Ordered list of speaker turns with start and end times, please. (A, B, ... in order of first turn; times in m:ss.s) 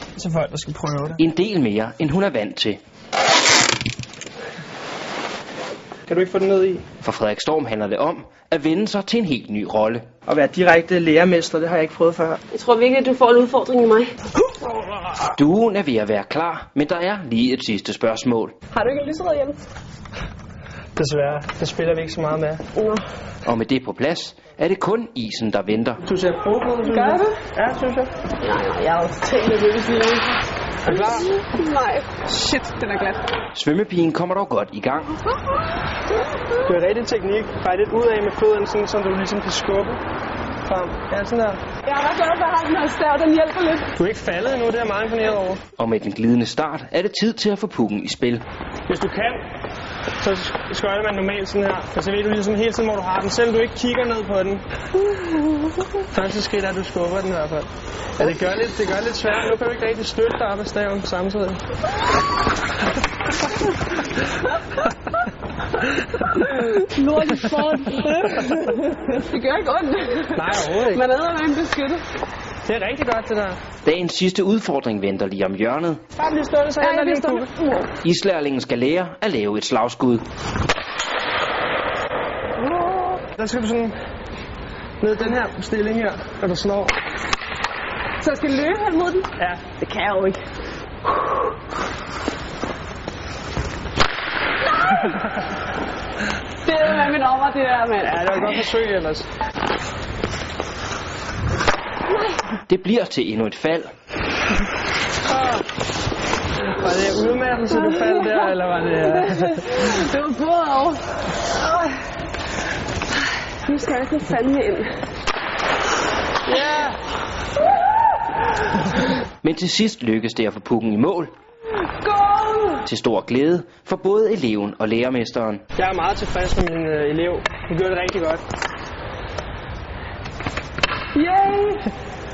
0:00.2-0:01.2 A
0:01.2-0:02.8 B
0:06.1-0:06.8 A
0:07.0-0:10.0 B
0:10.2-0:12.4 A
0:12.5-0:14.1 C
0:15.3-0:18.5 B
0:18.7-0:19.6 C
0:21.0-0:22.6 A
0:22.8-0:23.0 C
0:23.4-0:26.0 B
0:26.0-0:28.1 A
0:26.8-0:27.4 C
0:28.4-0:30.3 C
0:30.8-0:31.3 A
0:30.9-0:33.2 C
0:33.5-0:35.1 B
0:36.6-0:40.0 A
0:40.6-0:41.6 A
0:41.8-0:43.9 C
0:43.9-0:45.6 A
0:45.8-0:48.4 B
0:48.9-0:49.4 A
0:50.2-0:54.6 A
0:56.0-1:01.6 A
1:06.2-1:12.0 C
1:10.3-1:11.0 A
1:12.6-1:13.6 A
1:13.8-1:16.0 B
1:16.2-1:17.5 A
1:16.8-1:17.9 C
1:18.0-1:20.2 B
1:23.3-1:24.0 A
1:25.0-1:26.9 A
1:28.2-1:30.4 C
1:29.4-1:29.6 A
1:36.6-1:38.5 C
1:38.0-1:39.3 A
1:42.1-1:42.4 C
1:42.7-1:43.9 B
1:45.3-1:45.6 A
1:46.6-1:49.8 A
1:49.2-1:51.0 C
1:53.6-1:55.0 C
1:56.4-1:57.0 A
1:59.4-2:01.3 B
2:02.0-2:02.8 C
2:02.8-2:05.6 B
2:05.8-2:08.4 A
2:11.1-2:11.9 C